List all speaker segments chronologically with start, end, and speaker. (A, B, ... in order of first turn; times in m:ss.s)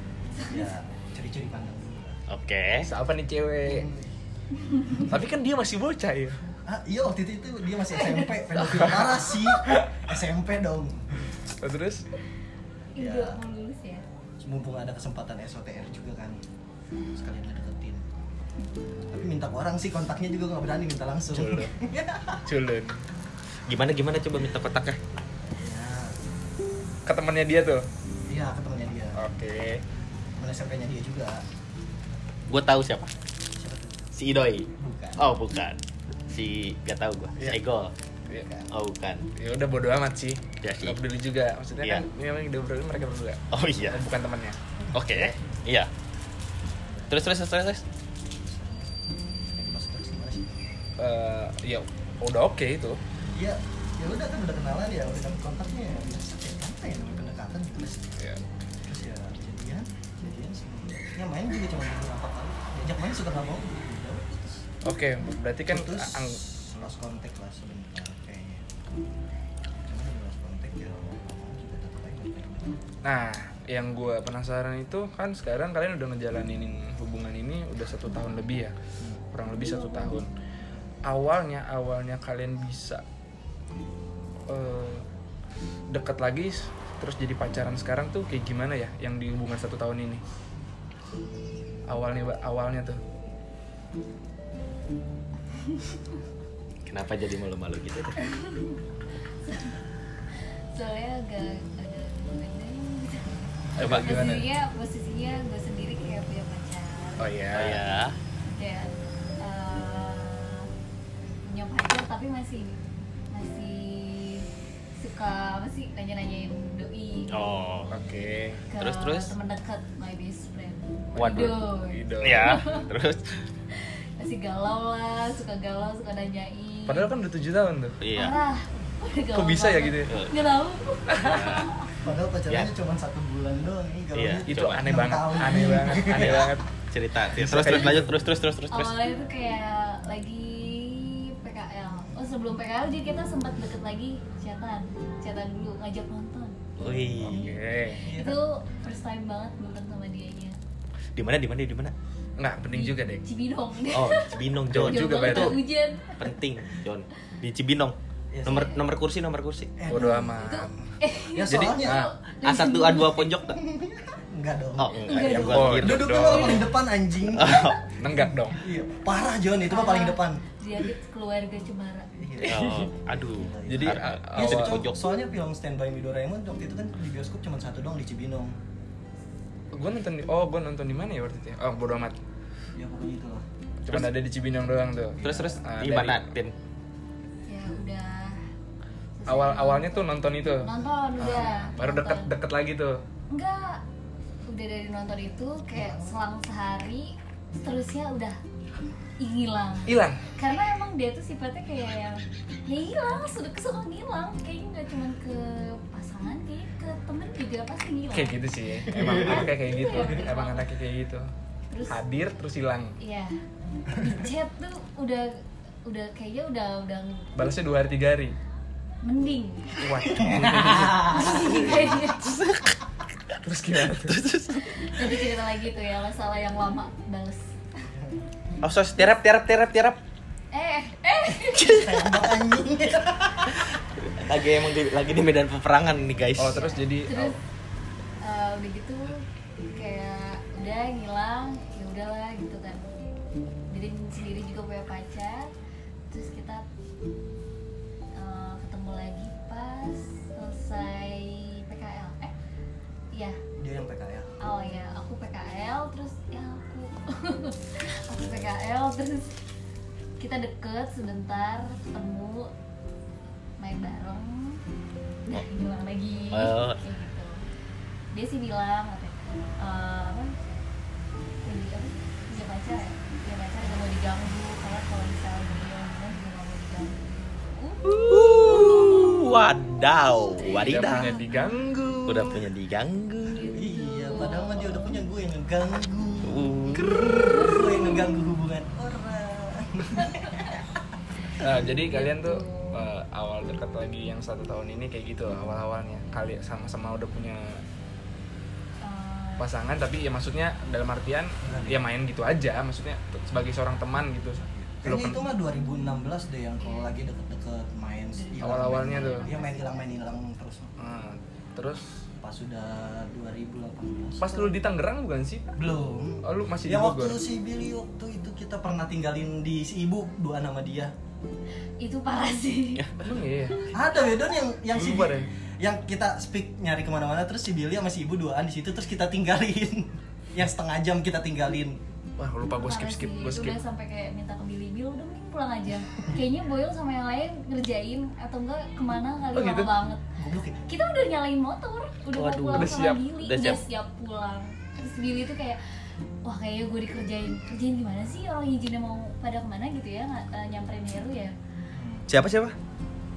0:00.3-0:02.2 A
0:00.3-0:00.7 B
0:02.3-0:02.9 C
0:02.8-0:03.9 D
0:03.6-0:04.1 A
0:04.6-0:05.1 B
0:04.9-0:05.2 A
0:05.0-0:06.4 D
0:06.6-0:11.3 A
0:07.9-0:08.4 B
0:08.6-0:09.7 D
0:11.6-0:12.0 D
0:12.9-0:14.0 B
0:13.0-0:13.4 A
0:14.4-0:16.4 A
0:17.1-0:18.1 A
0:19.1-0:22.4 A
0:21.3-0:21.7 D
0:22.4-0:23.0 D
0:23.7-0:25.0 C
0:25.5-0:26.2 A
0:27.0-0:27.9 D
0:28.3-0:29.2 A
0:29.2-0:29.8 D
0:30.4-0:31.4 A
0:32.5-0:33.1 C
0:33.5-0:34.1 A
0:34.1-0:35.8 C
0:34.8-0:35.2 A
0:36.3-0:37.9 C
0:38.4-0:38.7 A
0:38.7-0:39.2 C
0:39.4-0:44.6 D
0:40.6-0:41.0 C
0:41.8-0:42.0 C
0:43.5-0:44.0 C
0:44.9-0:45.9 C
0:46.9-0:47.2 A
0:47.1-0:47.8 C
0:48.3-0:50.5 A
0:51.0-0:53.0 D
0:53.3-0:58.2 A
0:58.8-1:04.6 A
1:04.8-1:06.4 D
1:05.7-1:08.6 A
1:09.8-1:12.8 A
1:13.0-1:18.8 D
1:19.3-1:20.3 D
1:21.0-1:23.0 D
1:24.5-1:25.0 D
1:25.9-1:30.2 D
1:31.9-1:33.0 D
1:35.5-1:36.0 B
1:36.8-1:38.2 C
1:38.2-1:38.8 B
1:39.4-1:39.8 B
1:40.3-1:47.3 B
1:43.8-1:44.5 D
1:43.8-1:44.3 C
1:47.2-1:47.8 D
1:47.5-1:48.2 C
1:48.4-1:50.7 B
1:51.4-1:52.8 B
1:53.3-1:57.6 B
1:57.3-1:57.9 C
1:57.9-1:58.6 D
1:58.7-2:02.9 B
1:58.8-1:59.3 C
2:01.2-2:01.6 C
2:01.4-2:02.6 D
2:02.2-2:03.3 C
2:03.7-2:07.1 B
2:06.9-2:08.0 D
2:08.0-2:08.4 C
2:08.1-2:11.9 B
2:09.3-2:10.1 D
2:11.1-2:11.6 D
2:11.2-2:11.7 C
2:11.9-2:16.5 A
2:14.1-2:14.9 C
2:14.5-2:16.7 D
2:16.0-2:18.9 C
2:17.3-2:18.1 D
2:18.7-2:26.6 B
2:26.8-2:27.6 C
2:27.2-2:28.1 D
2:27.2-2:28.4 A
2:28.0-2:30.6 B
2:31.2-2:31.9 C
2:32.4-2:33.2 D
2:32.7-2:36.3 B
2:33.9-2:35.6 C
2:34.7-2:35.6 D
2:36.2-2:37.9 C
2:38.3-2:38.7 A
2:38.4-2:39.7 C
2:38.5-2:38.8 B
2:39.8-2:40.3 A
2:39.9-2:40.7 D
2:39.9-2:43.2 B
2:41.3-2:42.0 A
2:41.5-2:42.1 D
2:42.4-2:43.6 C
2:43.5-2:50.4 A
2:44.8-2:46.6 C
2:45.0-2:46.6 B
2:45.2-2:46.7 D
2:47.3-2:47.8 C
2:48.0-2:48.6 D
2:49.7-2:52.1 B
2:52.2-2:58.6 A
2:52.4-2:55.0 C
2:53.6-2:54.8 D
2:59.7-3:02.2 D
3:02.7-3:03.4 A
3:03.8-3:06.2 D
3:05.2-3:05.4 A
3:05.2-3:06.5 C
3:07.4-3:08.5 B
3:09.2-3:12.3 B
3:09.3-3:13.0 D
3:13.3-3:13.8 B
3:14.5-3:18.4 B
3:15.7-3:16.1 A
3:19.2-3:28.4 B
3:19.9-3:20.2 D
3:28.1-3:31.3 D
3:28.9-3:29.5 A
3:28.9-3:30.7 B
3:31.7-3:32.0 B
3:31.9-3:33.0 D
3:33.0-3:37.3 B
3:37.4-3:38.4 D
3:39.0-3:40.2 B
3:39.8-3:41.6 D
3:40.3-3:41.3 A
3:41.0-3:42.4 B
3:41.8-3:42.8 C
3:43.3-3:45.1 C
3:43.4-3:44.2 D
3:44.6-3:47.4 B
3:48.6-3:50.0 C
3:50.5-3:51.9 B
3:51.5-3:53.8 A
3:51.8-3:52.3 C
3:54.0-3:56.7 C
3:56.4-3:57.4 D
3:56.5-3:57.4 B
3:58.2-4:02.8 B
4:03.7-4:05.5 B
4:06.1-4:06.6 B
4:08.2-4:12.3 B
4:13.1-4:13.4 B
4:13.6-4:14.3 A
4:14.4-4:19.3 B
4:20.2-4:22.5 B
4:23.6-4:24.6 B
4:25.3-4:27.4 B
4:26.3-4:26.8 C
4:28.1-4:30.3 B
4:31.4-4:39.2 B
4:38.0-4:41.2 C
4:40.4-4:41.5 B
4:40.5-4:42.5 D
4:42.1-4:43.5 C
4:43.3-4:45.0 B
4:43.5-4:50.8 A
4:46.2-4:47.3 C
4:47.2-4:47.6 B
4:51.4-4:57.6 D
4:51.8-4:52.9 B
4:58.8-4:59.5 B
4:59.4-5:05.2 D
5:01.4-5:01.9 A
5:04.8-5:10.7 A
5:06.6-5:07.0 B
5:08.1-5:09.8 B
5:08.4-5:09.3 D
5:10.8-5:12.0 D
5:12.2-5:14.6 A
5:14.2-5:15.5 D
5:15.6-5:20.9 A
5:16.2-5:17.2 D
5:21.8-5:22.9 B
5:23.0-5:23.6 D
5:23.7-5:31.8 A
5:24.7-5:25.3 D
5:32.2-5:33.6 D
5:32.6-5:40.0 B
5:39.3-5:39.7 D
5:40.2-5:40.6 A
5:40.7-5:51.3 B
5:42.2-5:43.6 C
5:42.5-5:43.0 D
5:51.7-5:52.0 A
5:52.1-5:52.6 C